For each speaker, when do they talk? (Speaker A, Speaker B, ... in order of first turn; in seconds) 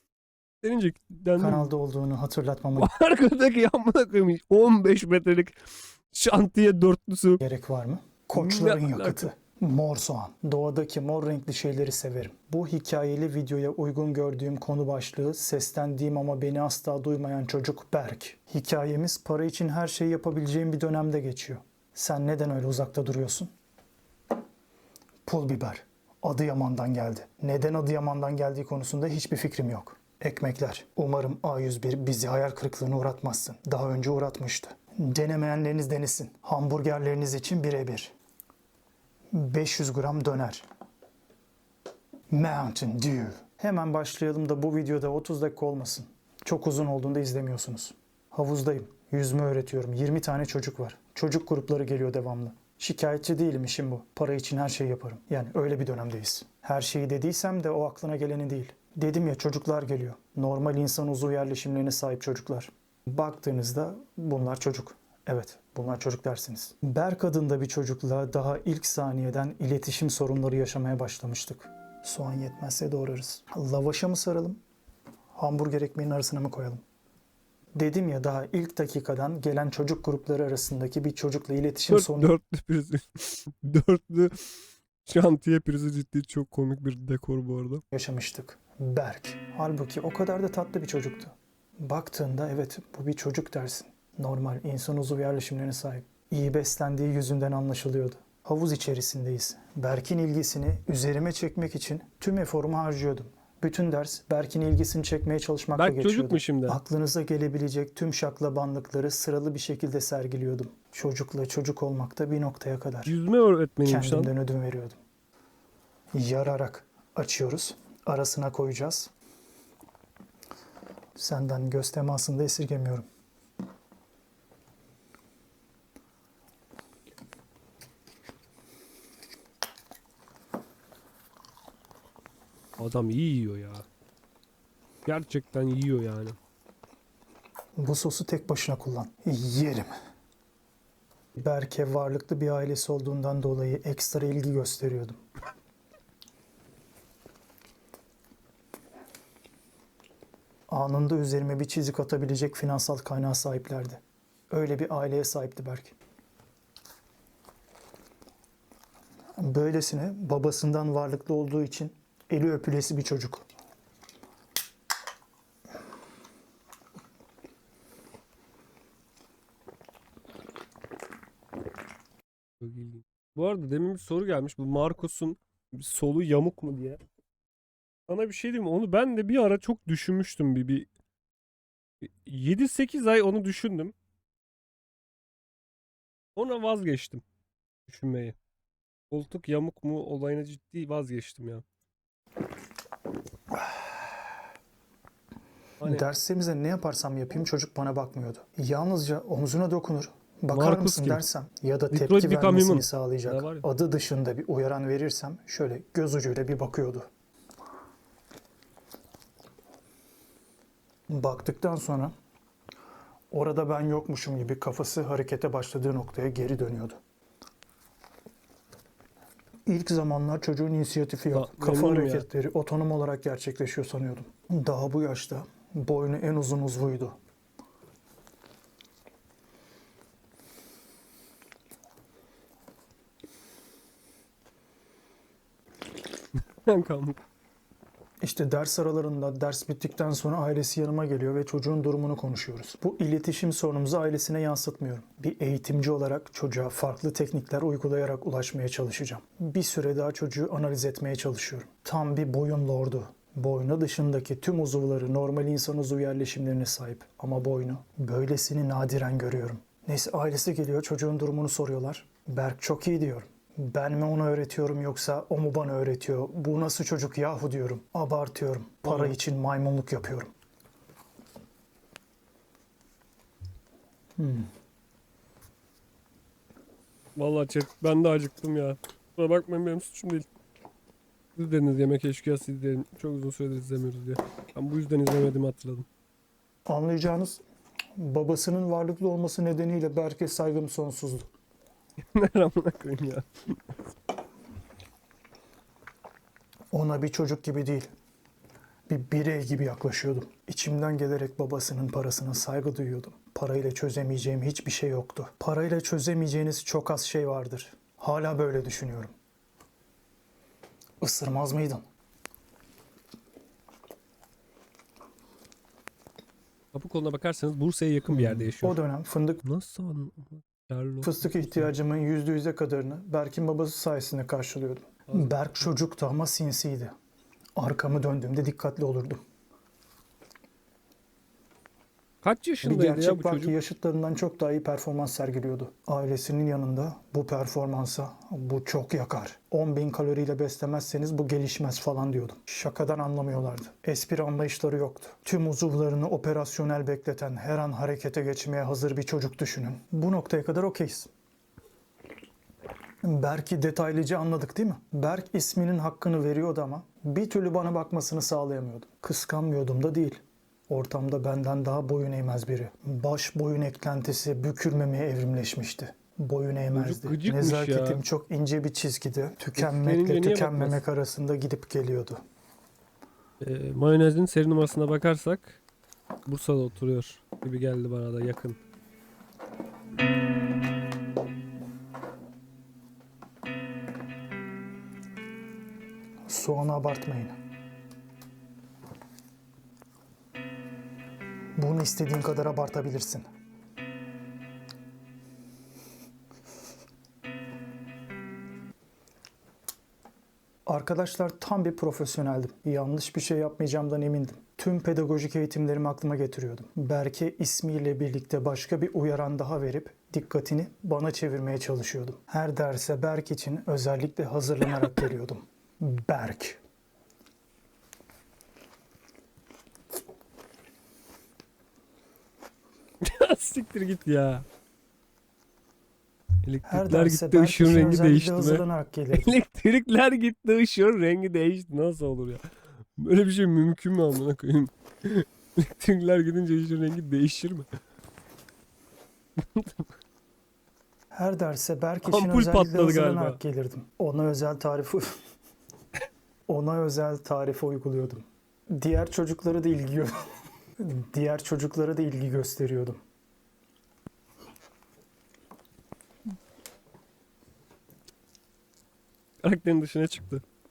Speaker A: 0.6-1.7, 2.8-5.6, 6.1-7.4, 8.3-9.3, 81.9-87.8, 105.7-106.8, 113.0-114.3, 132.8-133.8, 135.1-136.4, 172.6-177.0, 178.1-180.9, 182.0-183.9, 186.3-187.2, 187.9-188.4, 189.1-191.6, 200.5-201.2, 201.9-203.7, 221.3-222.2, 236.6-237.2, 268.8-269.1, 277.1-280.3, 281.4-285.9, 292.0-293.8, 316.7-318.8, 319.4-321.7, 325.1-325.3, 332.2-333.6, 366.7-368.0, 369.6-370.8, 373.4-375.6, 376.2-378.6, 423.0-424.4, 426.4-432.4, 432.9-437.7, 439.4-439.9, 442.0-443.4, 459.4-460.4
Speaker B: 1.4-2.9, 7.4-23.5, 25.2-38.1, 39.3-40.6, 42.3-74.6, 75.3-76.8, 77.7-82.3, 87.9-113.2, 113.8-115.0, 116.1-119.1, 121.2-123.0, 137.8-139.9, 141.3-145.2, 150.7-155.9, 159.3-163.5, 195.8-207.1, 211.1-212.1, 213.3-217.0, 219.7-227.2, 238.2-270.3, 274.2-274.5, 286.6-287.4, 287.9-291.3, 296.7-297.9, 298.9-309.1, 311.0-311.8, 318.1-319.4, 321.0-326.9, 327.6-329.2, 332.6-351.1, 353.0-372.2, 386.2-387.3, 391.6-393.2, 400.6-416.6, 426.6-429.4, 441.1-445.1, 446.5-450.2, 450.8-453.0